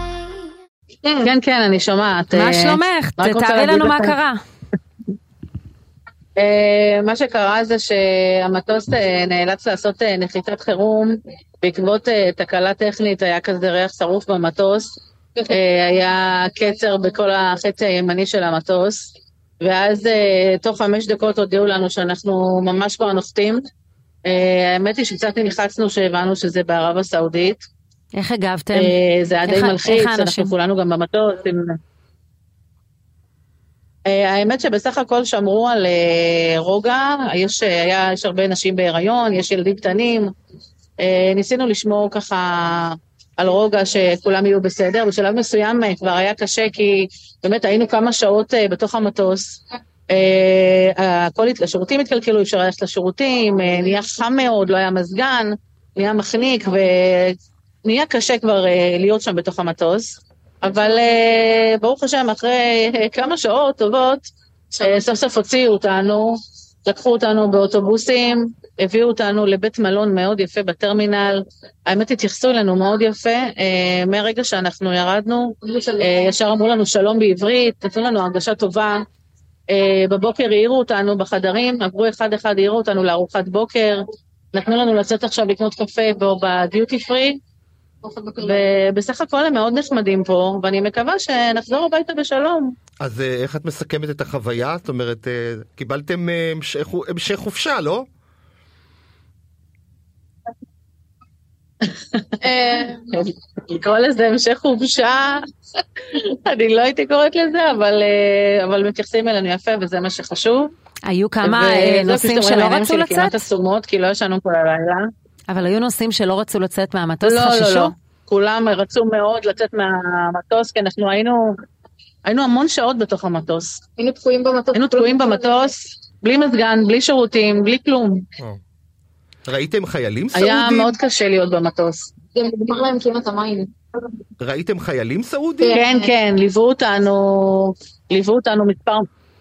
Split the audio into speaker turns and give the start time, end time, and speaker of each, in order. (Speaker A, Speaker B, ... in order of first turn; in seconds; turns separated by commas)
Speaker A: 1.2-4.2, Speaker B: 2.3-4.4, Speaker A: 6.4-23.6, Speaker A: 24.3-27.6, Speaker B: 28.1-28.9, Speaker A: 28.8-31.8, Speaker B: 29.5-30.5, Speaker A: 34.1-40.3, Speaker A: 41.0-79.0, Speaker A: 79.7-87.4, Speaker C: 88.1-88.6, Speaker A: 88.3-92.8, Speaker D: 93.0-98.1, Speaker A: 101.9-105.4, Speaker C: 102.6-102.9, Speaker A: 106.0-110.7, Speaker B: 111.1-113.4, Speaker A: 111.4-115.1, Speaker B: 115.5-117.9, Speaker A: 117.2-121.5, Speaker A: 122.3-123.8, Speaker C: 124.0-125.7, Speaker A: 124.7-128.3, Speaker D: 129.5-131.0, Speaker A: 130.3-132.1, Speaker C: 132.3-133.7, Speaker D: 134.4-135.8, Speaker C: 135.6-136.1, Speaker A: 135.7-139.1